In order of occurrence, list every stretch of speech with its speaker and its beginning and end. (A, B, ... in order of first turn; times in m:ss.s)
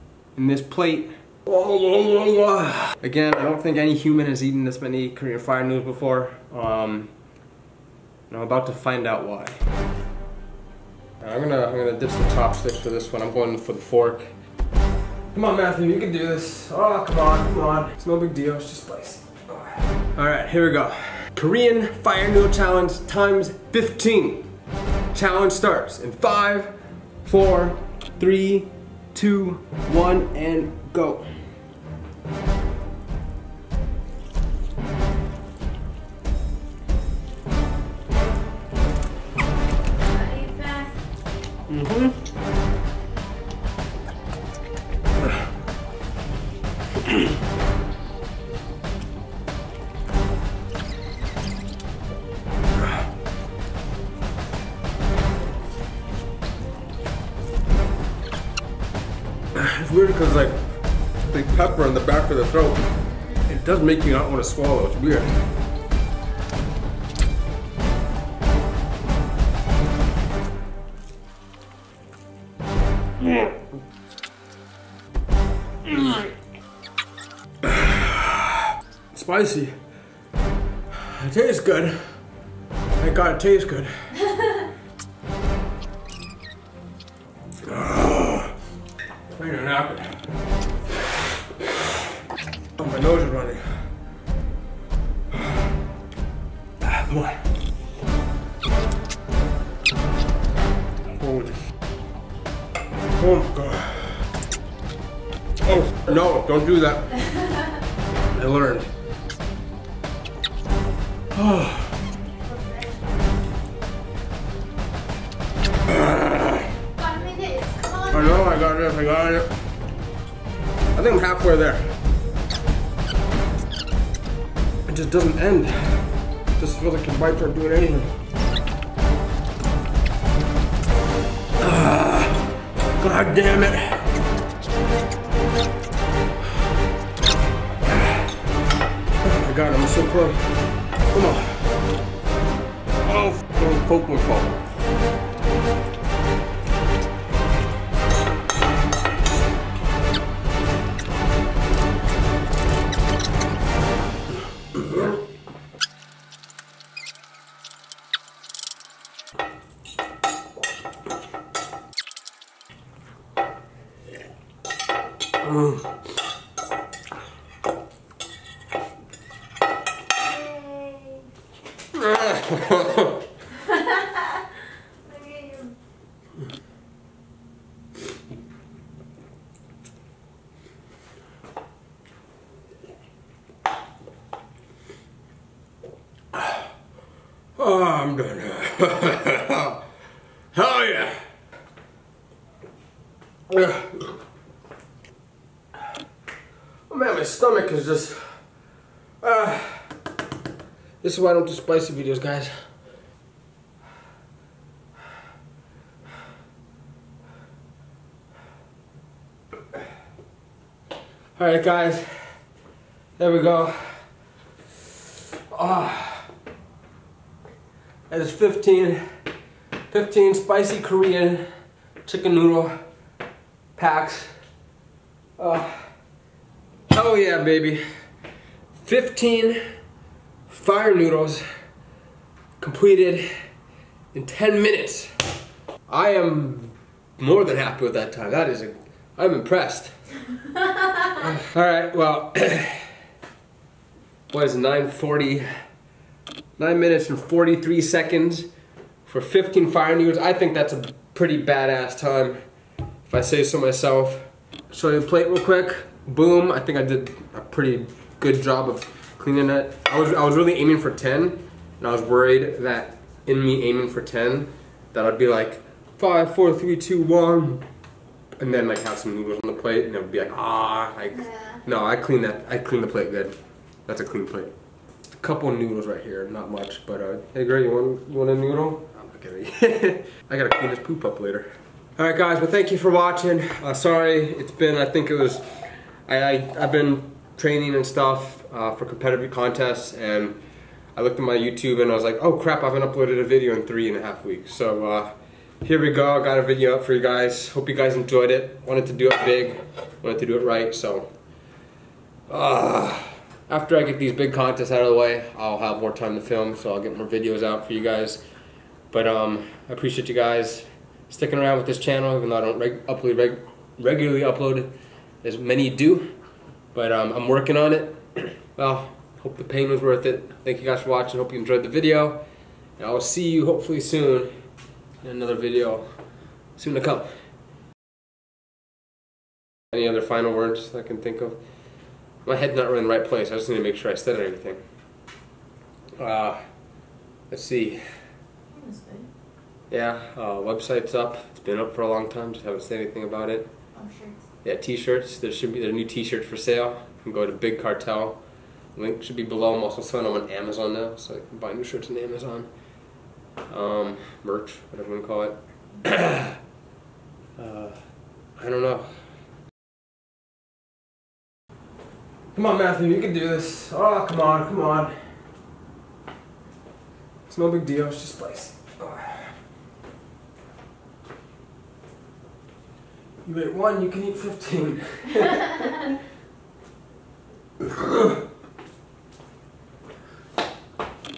0:00.4-0:07.1 A
0:08.3-0:09.6 A
0:11.2-0:14.3 A
0:15.3-0:24.5 A
0:25.1-0:31.3 A
0:40.0-0:41.0 B
0:41.7-0:42.2 A
0:59.5-1:00.7 A
1:01.2-1:02.8 A
1:03.5-1:05.4 A
1:13.2-1:13.6 A
1:15.9-1:16.3 A
1:17.6-1:19.8 A
1:21.0-1:22.1 A
1:23.0-1:23.9 A
1:27.6-1:28.5 A
1:29.3-1:30.2 A
1:32.8-1:33.7 A
1:36.8-1:37.4 A
1:41.1-1:41.6 A
1:43.2-1:44.3 A
1:45.6-1:47.3 A
1:48.3-1:48.9 A
1:51.3-1:52.0 A
1:52.5-1:52.9 B
1:55.9-1:56.7 A
1:57.0-1:58.6 B
1:58.1-1:59.5 A
2:00.9-2:01.9 A
2:04.9-2:08.1 A
2:11.6-2:12.5 A
2:13.0-2:14.1 A
2:17.9-2:18.2 A
2:19.2-2:20.5 A
2:21.1-2:21.7 A
2:23.0-2:24.6 A
2:45.4-2:45.8 A
2:50.2-2:51.3 B
2:51.9-2:53.2 A
2:53.5-2:54.5 B
2:55.1-2:55.8 B
3:06.3-3:06.6 A
3:07.6-3:09.8 A
3:10.5-3:11.2 A
3:13.5-3:14.1 A
3:16.9-3:18.2 A
3:19.2-3:19.9 A
3:21.0-3:22.5 A
3:31.4-3:32.3 A
3:33.2-3:34.0 A
3:35.5-3:36.3 A
3:38.1-3:39.0 A
3:39.9-3:41.4 A
3:42.0-3:42.8 A
3:43.8-3:44.3 A
3:45.4-3:45.9 A
3:46.9-3:47.8 A
3:48.8-3:49.6 A
3:50.5-3:51.4 A
3:52.6-3:53.3 A
3:54.1-3:55.1 A
3:55.9-4:00.0 A
4:00.8-4:02.9 A
4:04.3-4:05.5 A
4:06.6-4:08.5 A
4:09.1-4:12.4 A
4:13.1-4:27.6 A
4:28.4-4:33.3 A
4:31.2-4:31.6 B
4:33.9-4:34.5 A
4:35.1-4:45.4 A
4:46.1-4:50.4 A
4:51.0-5:01.1 A
5:02.3-5:08.2 A
5:08.9-5:14.7 A
5:15.2-5:16.1 A
5:16.7-5:22.2 A
5:22.8-5:24.3 A
5:25.0-5:25.9 A
5:26.6-5:27.1 A
5:29.7-5:31.4 A
5:32.2-5:34.6 A
5:36.0-5:36.4 A
5:37.3-5:37.8 A
5:38.5-5:39.1 B
5:39.7-5:43.5 A
5:43.8-5:44.2 B
5:44.4-5:48.2 A
5:48.8-5:52.5 A
5:53.5-5:56.4 A
5:57.4-5:57.8 A
5:58.4-5:58.9 A
6:02.3-6:04.9 A
6:07.3-6:09.3 A
6:13.2-6:15.9 A
6:17.6-6:18.2 A